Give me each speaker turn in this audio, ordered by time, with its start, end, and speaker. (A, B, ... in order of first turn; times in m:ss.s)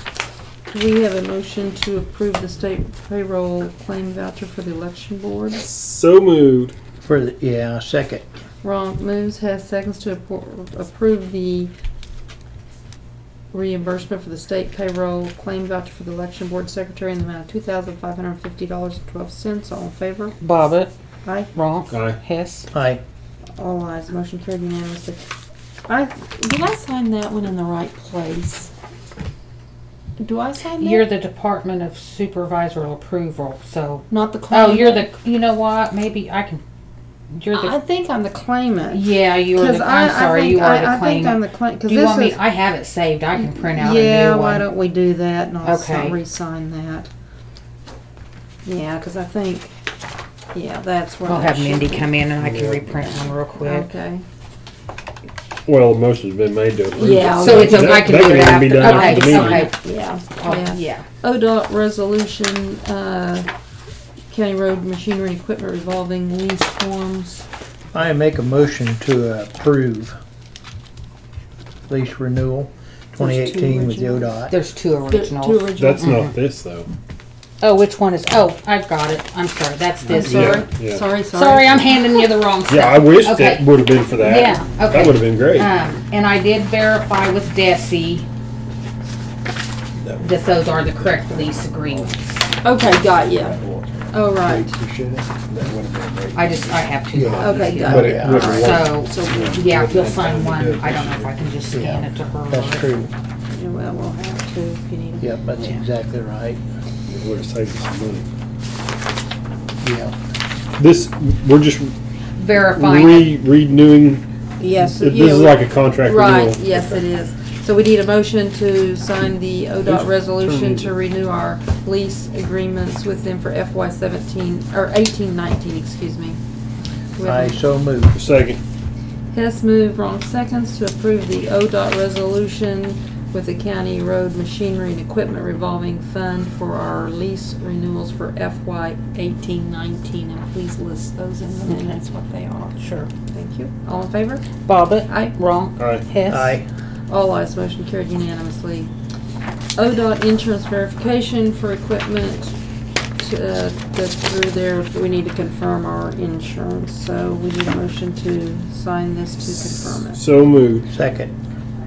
0:00.7-0:05.6 A
0:05.6-0:06.8 B
0:07.0-0:08.3 C
0:08.6-0:11.7 A
0:13.5-0:20.4 A
0:20.4-0:20.9 D
0:21.2-0:21.5 A
0:21.6-0:22.7 D
0:21.9-0:22.2 B
0:22.7-0:23.0 C
0:23.6-0:25.2 A
0:25.9-0:28.7 A
0:30.2-0:31.1 A
0:30.8-0:36.6 D
0:34.1-0:35.1 A
0:37.3-0:37.8 D
0:37.5-0:42.4 A
0:38.9-0:44.7 D
0:43.4-0:47.1 A
0:45.6-0:46.2 D
0:48.6-0:49.7 A
0:50.5-0:52.1 A
0:51.3-0:53.9 D
0:52.4-0:53.3 B
0:53.6-0:54.2 A
0:55.7-0:59.7 B
0:56.9-1:03.5 A
0:57.2-0:59.8 D
1:00.4-1:01.1 D
1:04.3-1:07.4 A
1:07.9-1:10.2 C
1:11.9-1:14.5 C
1:13.2-1:14.3 A
1:14.5-1:16.3 D
1:15.1-1:16.2 A
1:15.7-1:16.9 B
1:17.6-1:20.7 D
1:20.1-1:21.9 A
1:20.2-1:21.0 B
1:21.3-1:28.3 D
1:22.7-1:25.7 B
1:30.0-1:32.2 B
1:30.2-1:32.2 D
1:32.6-1:33.6 A
1:32.7-1:41.4 B
1:34.1-1:34.7 A
1:36.4-1:42.9 D
1:37.1-1:38.6 C
1:37.4-1:39.6 A
1:41.7-1:43.1 C
1:43.5-1:45.4 A
1:45.2-1:46.6 C
1:47.1-1:48.3 B
1:49.8-1:50.2 C
1:50.8-1:52.0 B
1:52.4-1:53.3 D
1:52.6-1:54.2 B
1:54.6-2:06.4 A
1:54.9-1:57.0 B
1:59.9-2:00.9 B
2:07.2-2:07.6 A
2:07.2-2:08.2 C
2:08.1-2:08.6 B
2:09.3-2:24.5 A
2:22.8-2:23.1 D
2:24.6-2:26.6 D
2:25.1-2:25.4 A
2:25.8-2:26.0 B
2:26.3-2:26.7 C
2:27.1-2:28.9 A
2:29.8-2:32.6 A
2:33.2-2:40.2 A
2:40.2-2:40.9 B
2:40.9-2:41.3 C